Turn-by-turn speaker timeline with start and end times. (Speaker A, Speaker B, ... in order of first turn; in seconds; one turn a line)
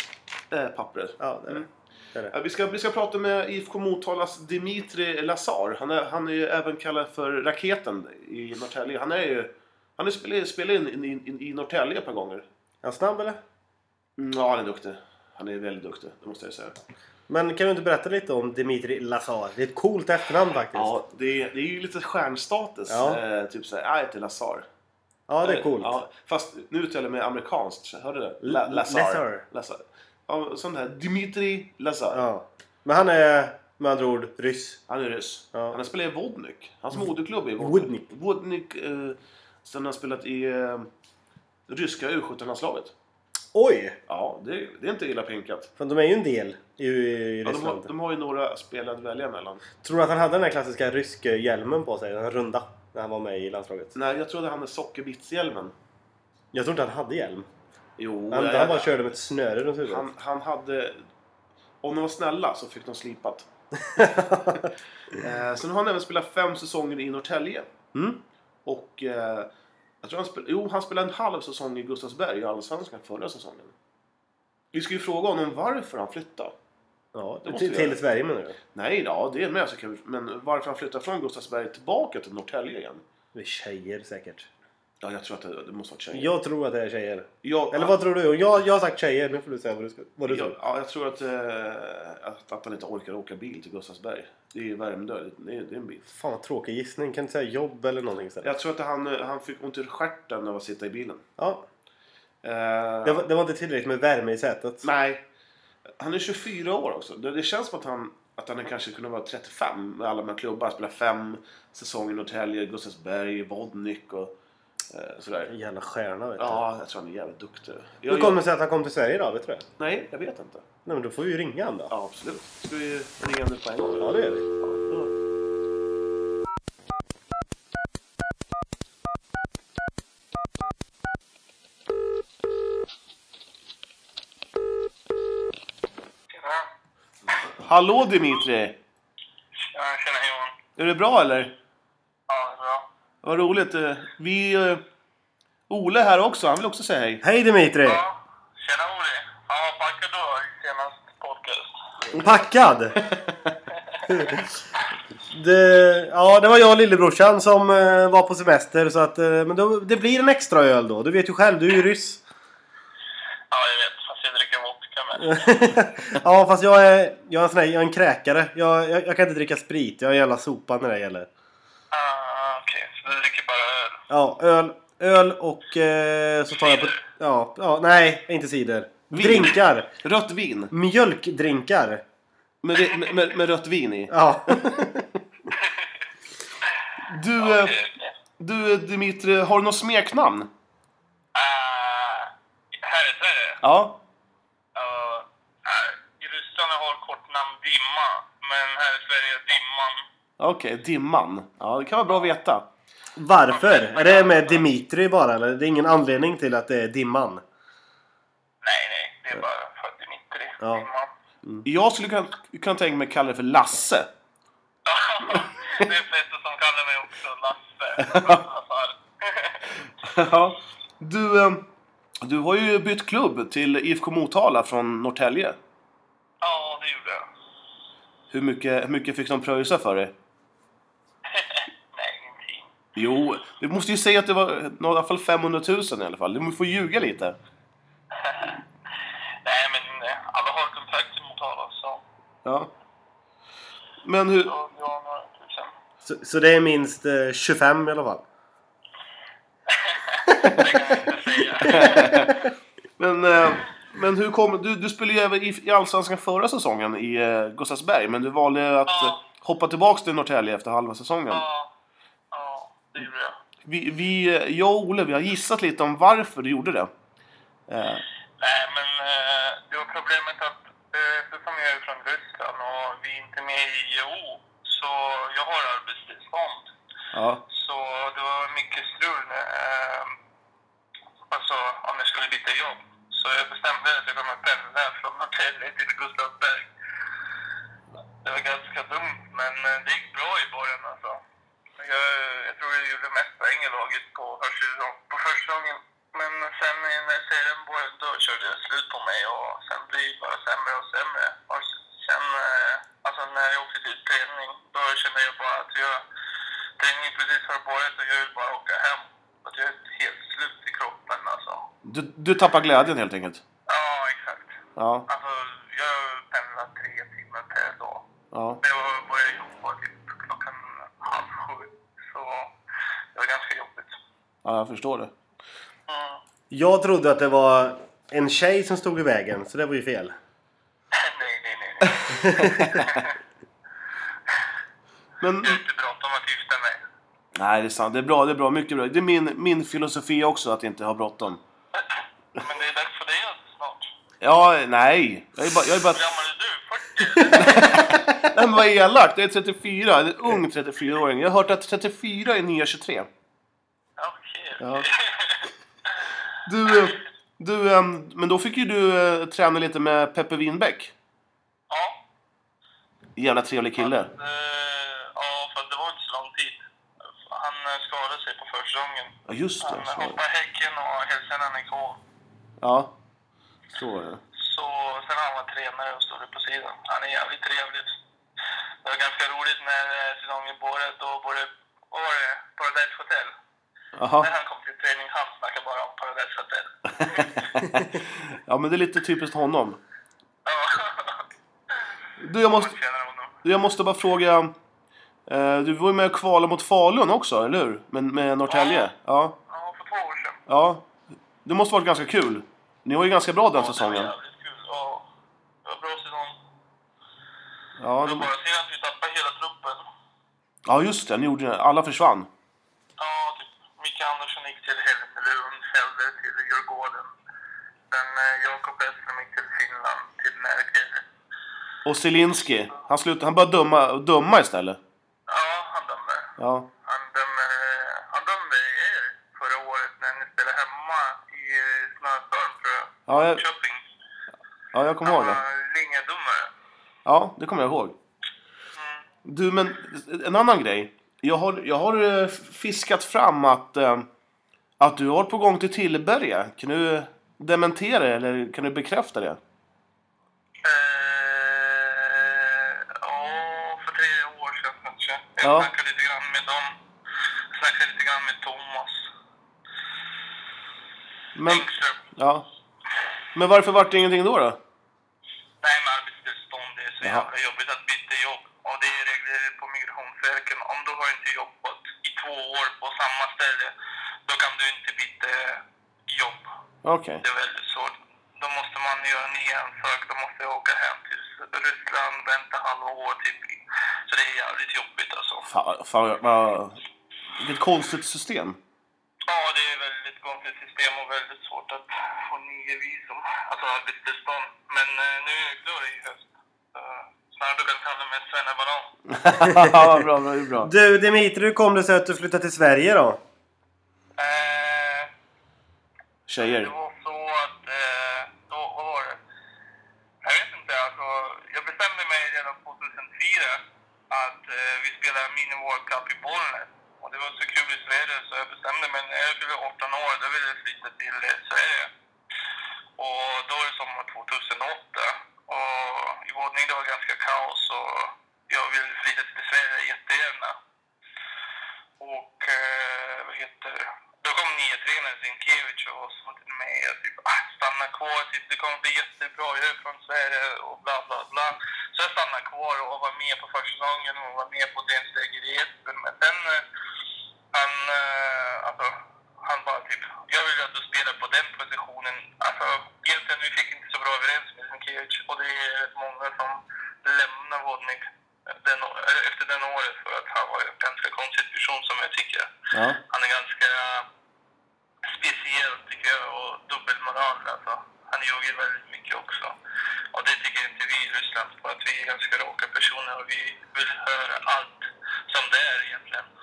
Speaker A: 0.5-1.7
Speaker B: 1.2-2.3
Speaker A: 2.3-12.5
Speaker B: 12.8-13.4
Speaker A: 14.2-16.8
Speaker B: 17.3-21.0
Speaker A: 20.7-24.7
Speaker B: 22.9-23.2
Speaker B: 25.3-26.0
Speaker A: 25.4-32.2
Speaker B: 28.4-29.4
Speaker B: 32.1-34.8
Speaker A: 34.9-40.9
Speaker B: 37.6-38.0
Speaker A: 41.7-42.9
Speaker B: 43.5-44.0
Speaker A: 44.1-45.7
Speaker B: 45.8-47.9
Speaker A: 47.5-49.6
Speaker B: 49.8-54.0
Speaker A: 54.0-55.7
Speaker B: 56.5-57.5
Speaker A: 58.0-58.9
Speaker B: 58.3-60.1
Speaker A: 59.9-61.0
Speaker A: 61.8-63.5
Speaker B: 63.8-64.7
Speaker A: 65.1-67.7
Speaker B: 67.9-68.2
Speaker A: 68.7-69.5
Speaker A: 70.0-73.7
Speaker A: 74.7-76.5
Speaker B: 77.1-78.6
Speaker A: 77.5-78.0
Speaker A: 78.7-83.0
Speaker B: 83.3-84.5
Speaker A: 85.0-86.3
Speaker B: 86.1-90.5
Speaker A: 87.4-88.0
Speaker A: 90.3-96.0
Speaker B: 96.1-98.5
Speaker A: 98.4-101.2
Speaker B: 101.4-101.7
Speaker A: 102.4-103.2
Speaker B: 103.0-104.8
Speaker A: 104.8-105.2
Speaker A: 106.0-114.3
Speaker A: 114.9-115.5
Speaker B: 115.5-116.6
Speaker A: 116.4-118.4
Speaker B: 118.1-119.7
Speaker A: 119.8-120.7
Speaker B: 120.8-121.9
Speaker A: 121.9-125.1
Speaker B: 124.0-124.5
Speaker C: 136.3-136.7
Speaker A: 137.5-138.8
Speaker C: 139.6-140.6
Speaker A: 140.8-141.5
Speaker C: 142.3-142.9
Speaker A: 143.2-144.8
Speaker A: 145.7-147.2
Speaker B: 147.2-148.0
Speaker C: 147.8-151.7
Speaker B: 152.2-153.0
Speaker B: 154.1-154.4
Speaker B: 155.3-162.2
Speaker C: 163.5-165.6
Speaker B: 165.2-171.3
Speaker C: 171.9-174.0
Speaker B: 174.1-179.9
Speaker C: 176.6-176.9
Speaker A: 179.1-180.7
Speaker B: 180.7-182.0
Speaker A: 182.6-184.9
Speaker B: 184.1-185.1
Speaker A: 187.1-187.8
Speaker C: 187.4-188.1
Speaker A: 188.4-190.5
Speaker C: 191.3-193.6
Speaker A: 193.6-194.0
Speaker C: 194.8-200.1
Speaker A: 200.4-202.7
Speaker B: 203.2-207.4
Speaker C: 203.5-204.7
Speaker C: 208.6-211.1
Speaker B: 210.6-210.9
Speaker A: 211.6-214.1
Speaker C: 214.9-219.6
Speaker A: 218.0-218.4
Speaker A: 220.0-221.6
Speaker A: 222.2-225.6
Speaker C: 226.4-227.3
Speaker A: 228.3-230.1
Speaker C: 231.3-232.7
Speaker A: 233.0-237.4
Speaker C: 238.2-238.6
Speaker C: 239.4-242.0
Speaker A: 242.4-242.7
Speaker A: 244.0-244.5
Speaker C: 244.4-245.8
Speaker B: 246.0-248.2
Speaker C: 249.7-252.3
Speaker B: 250.4-250.8
Speaker A: 251.7-252.5
Speaker A: 253.0-261.4
Speaker C: 258.9-259.2
Speaker C: 261.3-261.7
Speaker C: 262.3-263.4
Speaker A: 263.6-266.9
Speaker A: 267.7-268.0
Speaker C: 268.4-276.7
Speaker A: 277.1-277.4
Speaker C: 277.5-280.1
Speaker C: 281.3-286.7
Speaker C: 288.2-291.2
Speaker C: 291.8-306.0
Speaker C: 306.8-311.6
Speaker A: 311.8-313.4
Speaker C: 313.7-314.5
Speaker A: 314.8-315.1
Speaker C: 315.1-318.1
Speaker A: 318.3-318.6
Speaker C: 318.6-322.5
Speaker C: 323.1-324.0
Speaker A: 324.4-325.1
Speaker C: 325.9-326.2
Speaker B: 326.5-330.1
Speaker C: 330.9-333.1
Speaker A: 332.0-333.1
Speaker B: 332.1-332.7
Speaker A: 335.2-335.6
Speaker C: 335.4-336.8
Speaker A: 337.4-341.4
Speaker C: 342.4-343.9
Speaker A: 344.2-346.0
Speaker C: 345.9-348.0
Speaker A: 347.3-353.1
Speaker C: 354.0-356.0
Speaker A: 354.6-354.9
Speaker A: 356.4-360.9
Speaker C: 356.7-357.0
Speaker C: 361.7-362.0
Speaker A: 363.2-364.1
Speaker C: 363.8-366.6
Speaker C: 367.3-372.0
Speaker A: 369.3-370.2
Speaker A: 372.6-372.9
Speaker A: 373.7-374.2
Speaker C: 374.4-377.9
Speaker C: 378.8-383.3
Speaker A: 384.0-384.3
Speaker C: 384.2-387.5
Speaker A: 386.9-389.8
Speaker C: 390.4-391.3
Speaker A: 392.2-392.7
Speaker C: 392.4-393.3
Speaker A: 393.4-394.5
Speaker A: 395.3-399.4
Speaker C: 398.5-398.9
Speaker C: 399.5-400.4
Speaker A: 400.5-400.9
Speaker A: 401.4-404.1
Speaker C: 403.6-405.1
Speaker C: 405.6-406.4
Speaker A: 407.8-408.3
Speaker C: 408.0-409.8
Speaker A: 410.7-412.3
Speaker C: 413.0-417.1
Speaker C: 417.9-421.0
Speaker A: 421.9-424.8
Speaker C: 425.3-433.8
Speaker A: 426.4-426.7
Speaker A: 433.1-433.4
Speaker A: 434.7-435.4
Speaker C: 435.0-436.5
Speaker A: 437.1-437.9
Speaker C: 438.8-439.1
Speaker A: 439.2-444.1
Speaker A: 444.8-449.4
Speaker C: 450.6-456.8
Speaker A: 455.4-455.7
Speaker C: 457.5-459.1
Speaker A: 461.4-461.6
Speaker C: 461.5-462.0
Speaker A: 462.2-462.4
Speaker A: 463.4-464.6
Speaker C: 465.6-473.7
Speaker C: 474.3-476.5
Speaker A: 476.8-477.2
Speaker C: 477.2-485.5
Speaker A: 485.5-486.8
Speaker A: 487.4-488.6
Speaker C: 489.2-498.9
Speaker A: 499.1-500.7
Speaker B: 500.6-503.2
Speaker C: 504.2-505.1
Speaker A: 506.3-506.7
Speaker C: 506.4-509.2
Speaker C: 510.2-521.9
Speaker C: 523.0-530.6
Speaker C: 532.0-546.6
Speaker C: 547.5-564.1
Speaker A: 562.7-563.0
Speaker C: 565.1-569.5
Speaker C: 570.1-576.3